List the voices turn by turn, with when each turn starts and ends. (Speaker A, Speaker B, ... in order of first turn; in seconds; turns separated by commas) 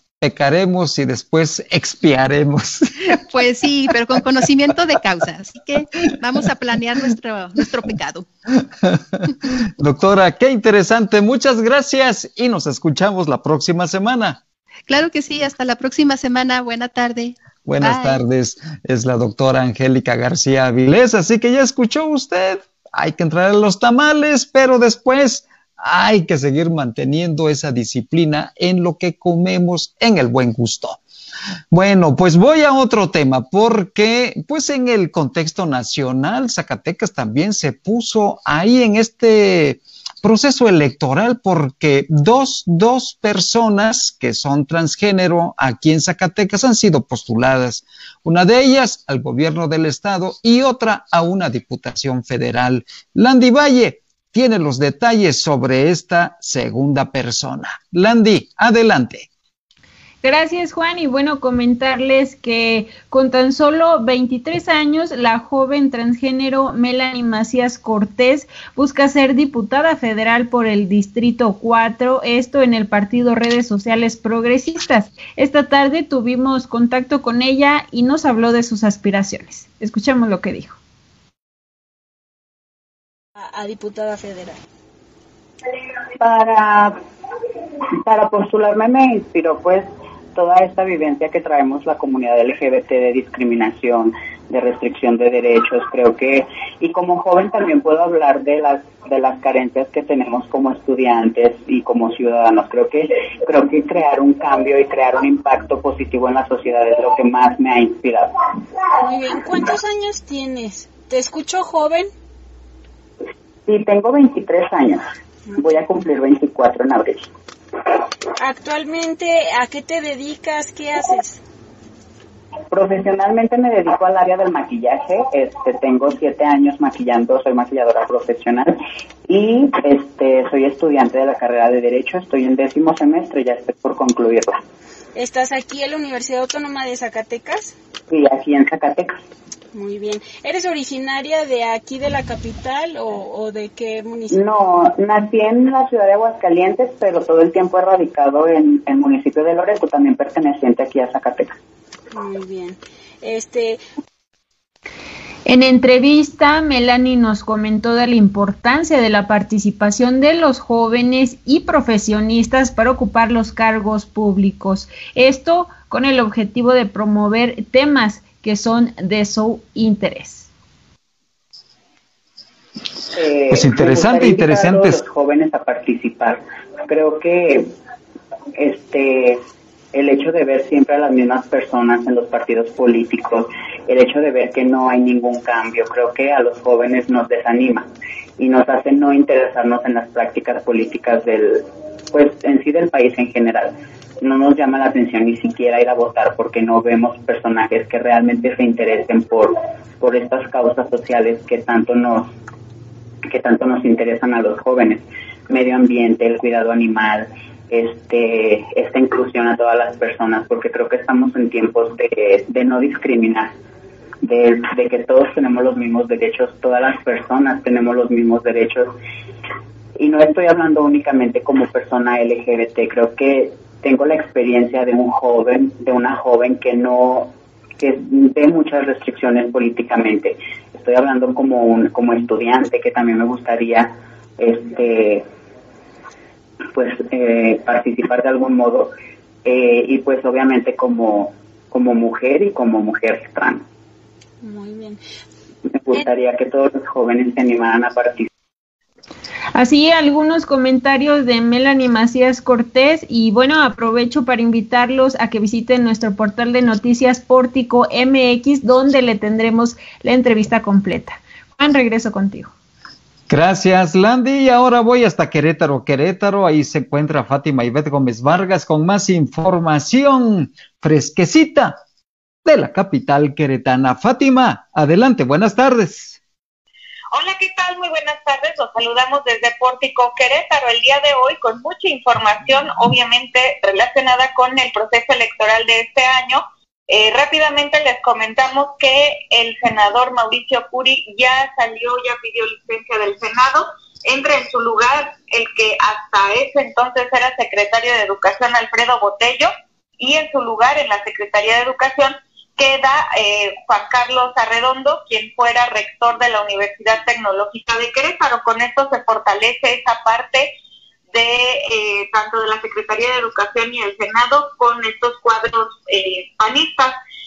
Speaker A: 0.2-3.2, Speaker B: 3.1-8.3, Speaker A: 8.9-14.4, Speaker B: 14.9-18.2, Speaker A: 17.6-31.0, Speaker A: 31.7-59.3, Speaker C: 60.2-80.8, Speaker D: 83.4-84.6, Speaker E: 86.2-87.0, Speaker E: 88.0-108.4, Speaker D: 109.0-112.1, Speaker E: 113.7-115.1, Speaker D: 115.5-115.8, Speaker E: 115.6-117.3, Speaker D: 118.4-121.4, Speaker E: 122.7-134.6, Speaker D: 135.2-137.8, Speaker E: 138.1-139.2, Speaker D: 139.7-144.4, Speaker E: 144.3-151.6, Speaker D: 152.1-153.8, Speaker C: 155.5-170.5, Speaker E: 173.2-177.7, Speaker A: 173.5-175.0, Speaker E: 178.6-179.4, Speaker E: 179.9-202.3, Speaker E: 203.2-213.5, Speaker E: 214.2-219.0, Speaker E: 220.0-235.3, Speaker E: 236.7-238.9, Speaker E: 239.4-243.7, Speaker D: 244.4-245.0, Speaker E: 245.8-248.3, Speaker C: 249.6-262.5, Speaker A: 263.3-271.8, Speaker A: 272.4-276.2, Speaker F: 277.1-310.5, Speaker F: 311.1-317.0